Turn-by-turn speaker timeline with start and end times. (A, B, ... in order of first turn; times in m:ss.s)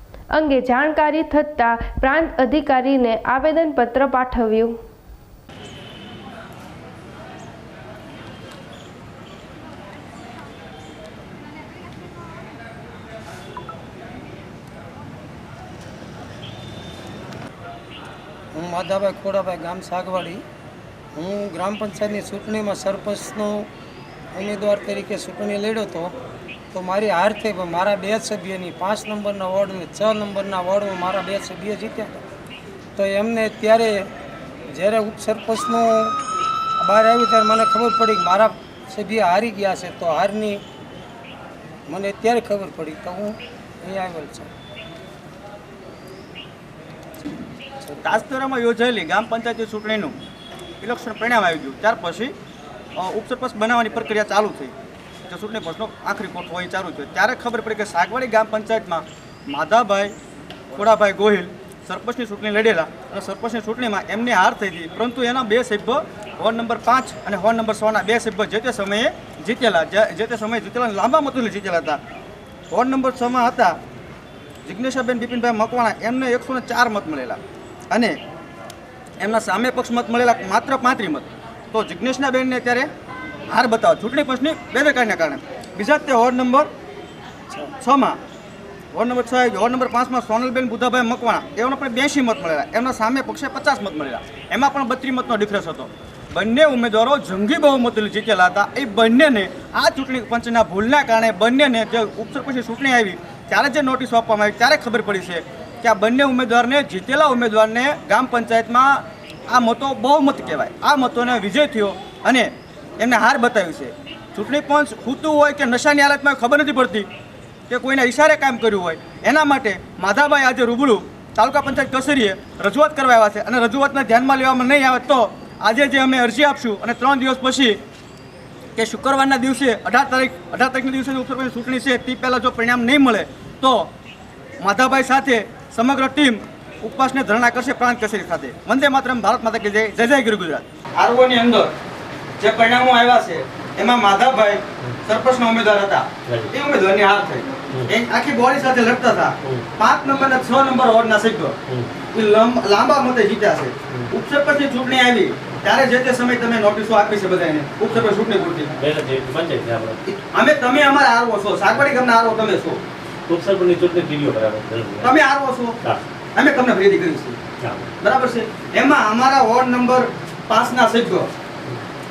0:00.3-0:04.8 A
0:18.5-0:20.4 B
0:21.2-0:23.7 B
0:24.3-0:26.2 B
0:26.7-0:32.2 B
0:33.0-0:34.1 B
0:34.7-0:36.2 B
0:36.8-0:40.6 B
0:41.9-0:44.5 B
0:47.8-0:48.2 B
0:48.0-0:50.2 C
0:50.8-0:52.3 C
0:53.0-0:54.7 C
0:55.3-1:00.2 C
1:00.7-1:12.0 C
1:12.7-1:13.8 C
1:14.6-1:18.2 C
1:19.2-1:22.9 C
1:23.5-1:26.7 C
1:27.8-1:28.2 C
1:28.9-1:57.1 C
1:57.7-2:07.8 C
2:08.8-2:13.9 C
2:14.6-2:21.7 C
2:22.4-2:31.6 C
2:26.3-2:26.5 D
2:32.1-2:38.7 C
2:38.8-2:40.0 D
2:40.1-2:42.8 C
2:43.3-2:45.1 D
2:45.0-2:45.8 C
2:46.4-2:47.4 C
2:47.6-2:47.9 D
2:48.0-2:51.3 C